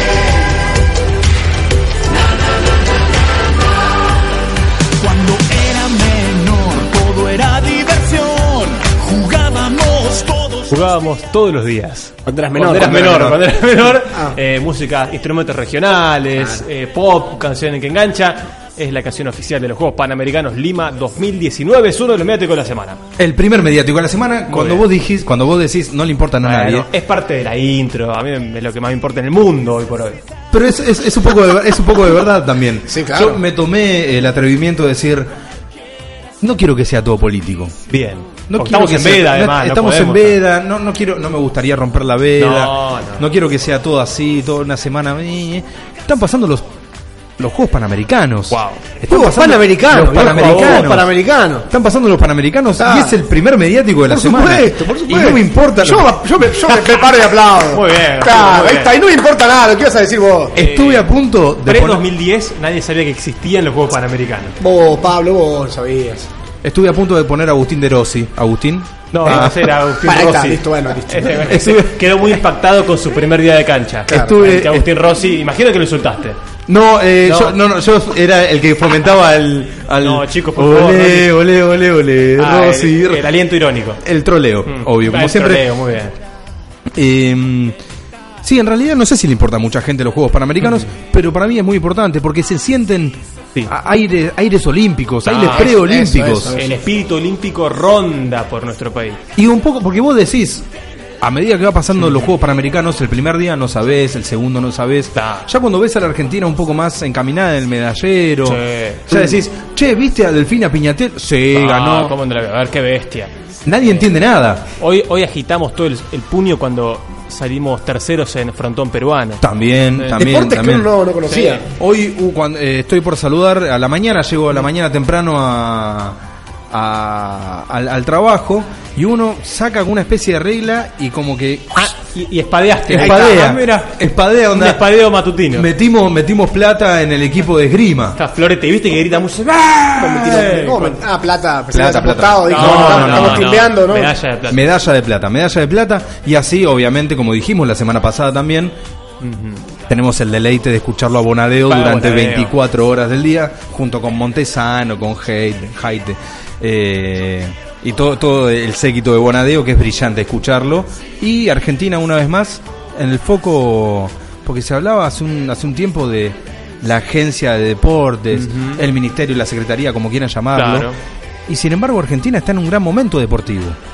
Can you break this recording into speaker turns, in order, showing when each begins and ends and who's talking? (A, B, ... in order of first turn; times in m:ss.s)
0:05.0-0:10.7 A
0:10.7-0:23.0 B
0:12.2-0:13.4 C
0:14.1-0:14.3 C
0:16.4-0:16.6 C
0:23.2-0:26.9 D
0:24.5-0:24.9 B
0:26.4-0:30.2 B
0:30.5-0:35.3 D
0:32.9-0:33.4 C
0:36.4-0:37.7 D
0:37.9-0:40.4 B
0:38.5-0:46.7 D
0:42.4-0:43.3 B
0:47.4-0:51.1 D
0:48.5-0:48.8 B
0:49.1-0:51.7 C
0:50.2-0:51.0 B
0:51.7-0:56.2 D
0:52.8-0:53.1 C
0:54.1-1:00.6 C
0:56.7-0:58.9 B
1:00.5-1:01.1 B
1:00.5-1:02.1 D
1:01.6-1:04.6 B
1:04.6-1:06.3 C
1:06.6-1:09.8 D
1:09.1-1:16.4 B
1:09.2-1:11.5 C
1:11.4-1:12.2 D
1:14.1-1:14.9 D
1:14.1-1:14.4 C
1:16.7-1:23.3 D
1:17.2-1:17.6 B
1:20.0-1:21.4 B
1:22.4-1:24.0 B
1:24.0-1:25.7 D
1:24.6-1:26.2 B
1:26.9-1:27.8 D
1:28.4-1:36.6 D
1:35.2-1:35.7 B
1:35.4-1:36.7 C
1:36.5-1:39.2 B
1:39.4-1:40.7 D
1:41.2-1:52.2 D
1:42.0-1:42.3 B
1:45.2-1:45.4 B
1:48.4-1:49.4 B
1:51.5-1:53.3 B
1:53.6-1:54.6 D
1:54.8-1:59.4 B
1:59.4-2:00.9 D
2:00.0-2:00.2 B
2:00.2-2:01.6 C
2:01.2-2:01.6 B
2:01.7-2:06.2 D
2:06.7-2:11.9 D
2:11.8-2:14.0 B
2:12.9-2:14.9 D
2:13.0-2:13.2 C
2:14.5-2:15.7 B
2:15.5-2:18.2 D
2:18.2-2:21.0 B
2:20.0-2:24.2 C
2:21.7-2:23.6 D
2:22.4-2:24.7 B
2:24.5-2:28.7 D
2:29.2-2:29.6 B
2:29.9-2:50.9 D
2:31.7-2:32.5 B
2:48.4-2:48.8 B
2:50.6-2:51.0 B
2:51.5-2:53.8 D